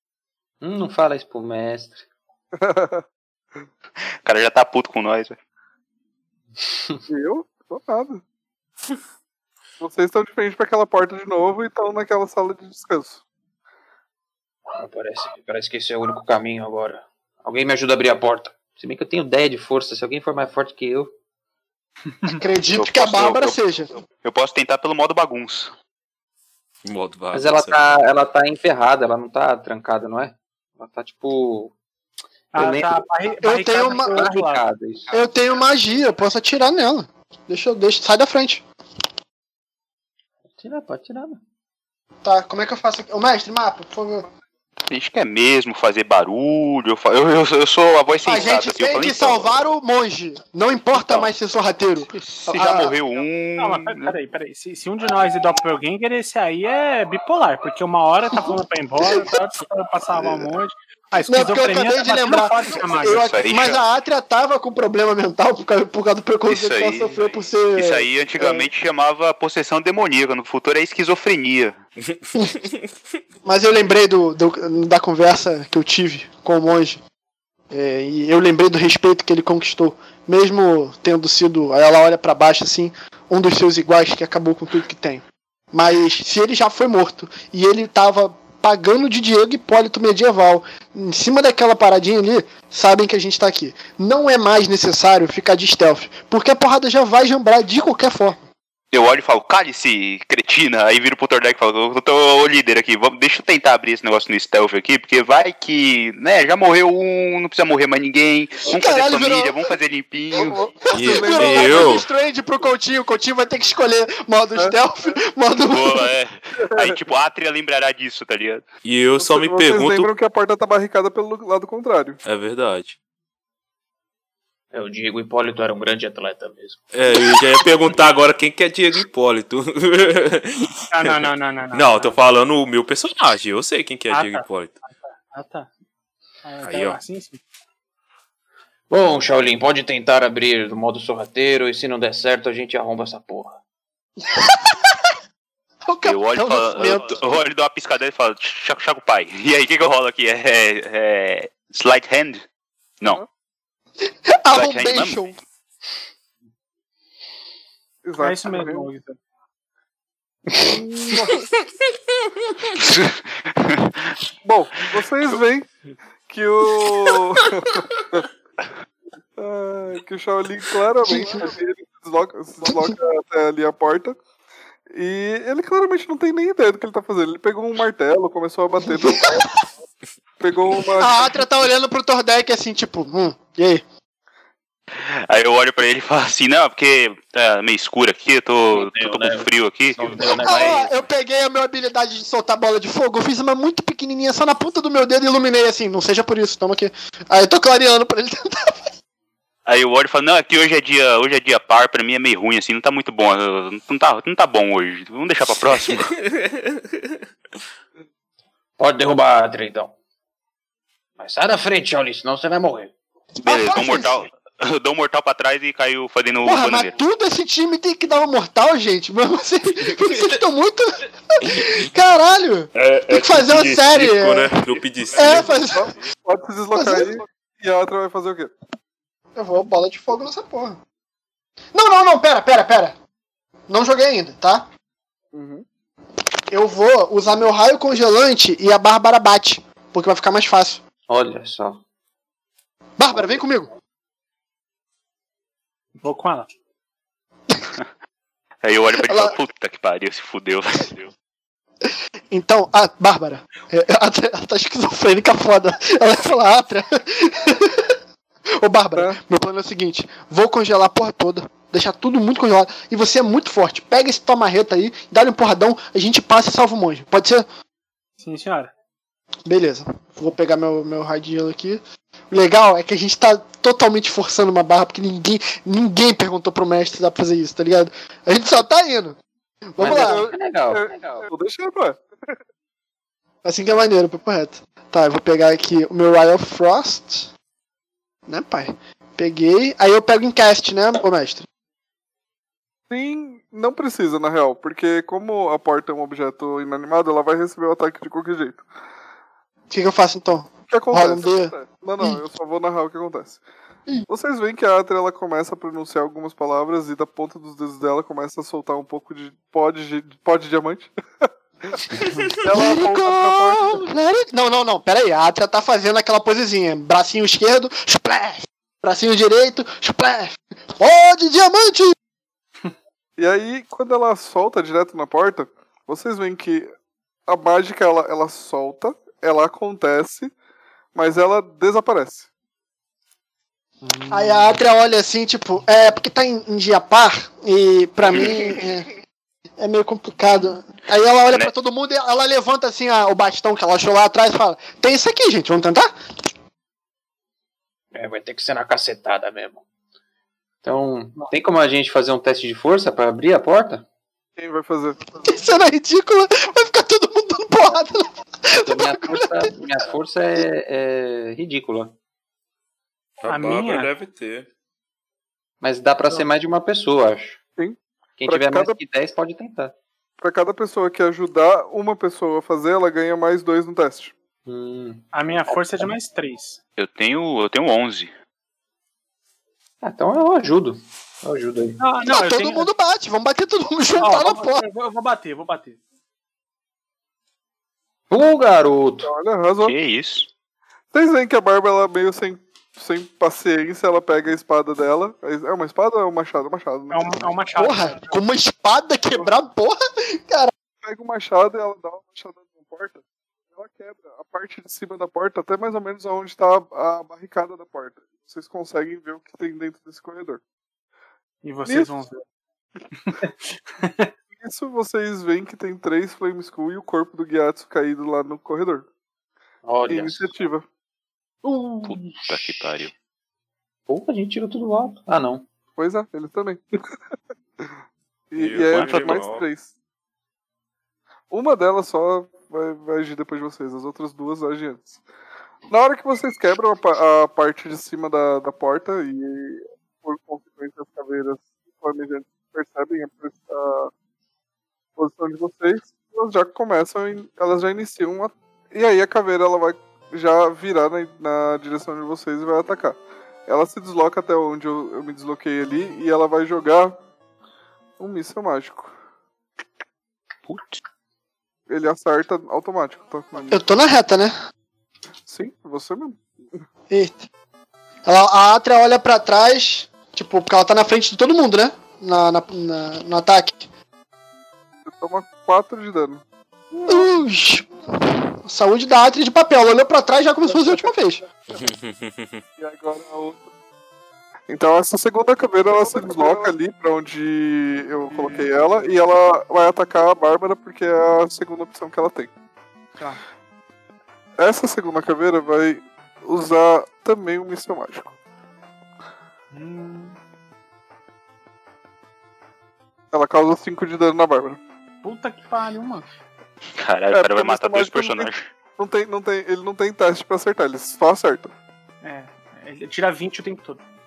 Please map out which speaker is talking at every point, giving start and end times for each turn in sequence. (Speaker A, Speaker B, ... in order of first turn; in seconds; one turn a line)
Speaker A: 0.6-2.0
Speaker B: 2.6-3.0
Speaker C: 4.2-5.4
Speaker B: 7.1-8.2
Speaker B: 9.8-13.2
Speaker A: 14.7-21.1
Speaker D: 22.3-23.9
Speaker C: 22.7-23.6
Speaker C: 24.2-25.7
Speaker E: 26.8-27.9
Speaker A: 27.3-31.7
Speaker F: 32.5-34.6
Speaker A: 32.5-33.0
Speaker D: 33.4-34.3
Speaker A: 33.9-35.3
Speaker D: 35.1-38.6
Speaker A: 40.5-41.4
Speaker D: 42.2-44.3
Speaker C: 44.9-49.6
Speaker D: 48.2-52.9
Speaker C: 50.9-51.3
Speaker C: 52.3-54.1
Speaker F: 53.6-63.3
Speaker D: 61.3-68.7
Speaker C: 63.0-63.8
Speaker C: 66.5-71.8
Speaker E: 72.5-72.8
Speaker D: 73.4-77.0
Speaker D: 77.7-98.4
Speaker C: 98.9-110.6
Speaker D: 108.6-109.7
Speaker B: 110.3-112.0
Speaker D: 110.3-116.1
Speaker E: 110.9-112.0
Speaker C: 115.7-118.7
Speaker B: 116.6-117.0
Speaker E: 118.8-120.1
Speaker B: 119.2-122.2
Speaker E: 122.2-123.0
Speaker A: 124.7-127.2
Speaker E: 126.9-134.8
Speaker F: 130.9-132.2
Speaker F: 134.1-135.7
Speaker F: 136.4-137.4
Speaker E: 136.6-137.0
Speaker A: 138.9-143.6
Speaker D: 144.2-145.0
Speaker D: 145.9-147.2
Speaker C: 146.0-152.4
Speaker D: 154.1-155.4
Speaker C: 154.5-155.2
Speaker B: 158.0-158.9
Speaker F: 158.2-159.2
Speaker A: 160.5-160.7
Speaker B: 160.6-161.5
Speaker C: 162.7-164.2
Speaker B: 164.4-165.7
Speaker B: 166.3-168.3
Speaker B: 169.4-174.2
Speaker D: 171.0-171.5
Speaker D: 172.6-172.9
Speaker B: 174.9-179.5
Speaker D: 178.8-179.5
Speaker B: 180.4-181.4
Speaker D: 180.9-183.8
Speaker C: 184.9-190.6
Speaker A: 188.7-190.9
Speaker D: 190.4-198.9
Speaker C: 199.7-206.1
Speaker E: 205.9-207.2
Speaker A: 208.8-209.9
Speaker A: 211.2-212.9
Speaker C: 213.4-216.9
Speaker D: 213.4-214.2
Speaker D: 216.4-225.9
Speaker E: 222.7-225.6
Speaker B: 225.2-228.5
Speaker D: 226.7-227.1
Speaker D: 229.3-230.8
Speaker D: 231.7-232.9
Speaker D: 233.7-234.7
Speaker B: 235.3-235.6
Speaker D: 236.5-240.8
Speaker A: 241.1-241.8
Speaker D: 243.0-243.7
Speaker F: 246.0-246.5
Speaker C: 248.6-251.1
Speaker D: 249.0-249.4
Speaker D: 251.8-257.9
Speaker D: 258.6-267.5
Speaker F: 268.2-268.7
Speaker D: 269.4-279.2
Speaker D: 279.7-280.3
Speaker A: 279.8-281.3
Speaker B: 279.9-282.1
Speaker D: 283.4-287.3
Speaker D: 288.3-291.4
Speaker B: 292.9-298.6
Speaker D: 299.7-302.2
Speaker B: 300.7-303.4
Speaker B: 304.1-311.9
Speaker B: 312.4-313.8
Speaker D: 312.4-321.9
Speaker B: 323.2-326.7
Speaker B: 327.3-330.3
Speaker B: 330.9-332.3
Speaker F: 333.8-334.5
Speaker D: 334.1-338.9
Speaker C: 338.1-338.5
Speaker D: 339.6-345.9
Speaker A: 347.9-349.6
Speaker A: 350.6-353.9
Speaker B: 354.4-355.0
Speaker D: 355.2-359.5
Speaker A: 358.5-361.9
Speaker E: 363.2-364.5
Speaker F: 363.3-363.9
Speaker A: 365.6-367.4
Speaker B: 367.6-368.8
Speaker A: 368.2-369.7
Speaker B: 370.2-374.1
Speaker A: 374.4-375.9
Speaker F: 375.1-376.6
Speaker C: 376.8-378.1
Speaker A: 379.8-381.8
Speaker F: 381.8-382.7
Speaker D: 382.0-384.6
Speaker F: 384.0-385.8
Speaker A: 388.1-389.1
Speaker B: 389.0-389.7
Speaker C: 389.6-390.3
Speaker B: 390.9-397.3
Speaker F: 396.9-398.1
Speaker D: 397.6-400.5
Speaker B: 400.8-410.4
Speaker F: 411.4-412.2
Speaker B: 411.6-411.9
Speaker F: 413.0-414.1
Speaker B: 414.3-418.9
Speaker A: 419.6-420.3
Speaker B: 419.9-420.6
Speaker A: 421.4-422.6
Speaker C: 421.8-422.9
Speaker A: 423.9-425.4
Speaker B: 425.8-426.6
Speaker B: 428.3-429.7
Speaker E: 428.4-429.4
Speaker C: 428.7-429.2
Speaker B: 431.3-435.0
Speaker B: 435.7-443.9
Speaker B: 445.0-456.9
Speaker B: 458.0-458.9
Speaker C: 460.5-460.8
Speaker B: 461.7-463.6
Speaker D: 463.5-464.3
Speaker B: 465.2-466.6
Speaker D: 466.9-467.2
Speaker D: 468.0-473.7
Speaker B: 474.9-476.2
Speaker D: 476.9-481.2
Speaker B: 480.5-480.9
Speaker E: 481.5-482.4
Speaker B: 482.6-483.5
Speaker B: 484.5-492.3
Speaker B: 494.4-498.1
Speaker F: 499.5-500.2
Speaker B: 503.1-504.6
Speaker F: 505.0-506.1
Speaker C: 506.8-508.5
Speaker B: 507.1-511.5
Speaker F: 512.0-513.8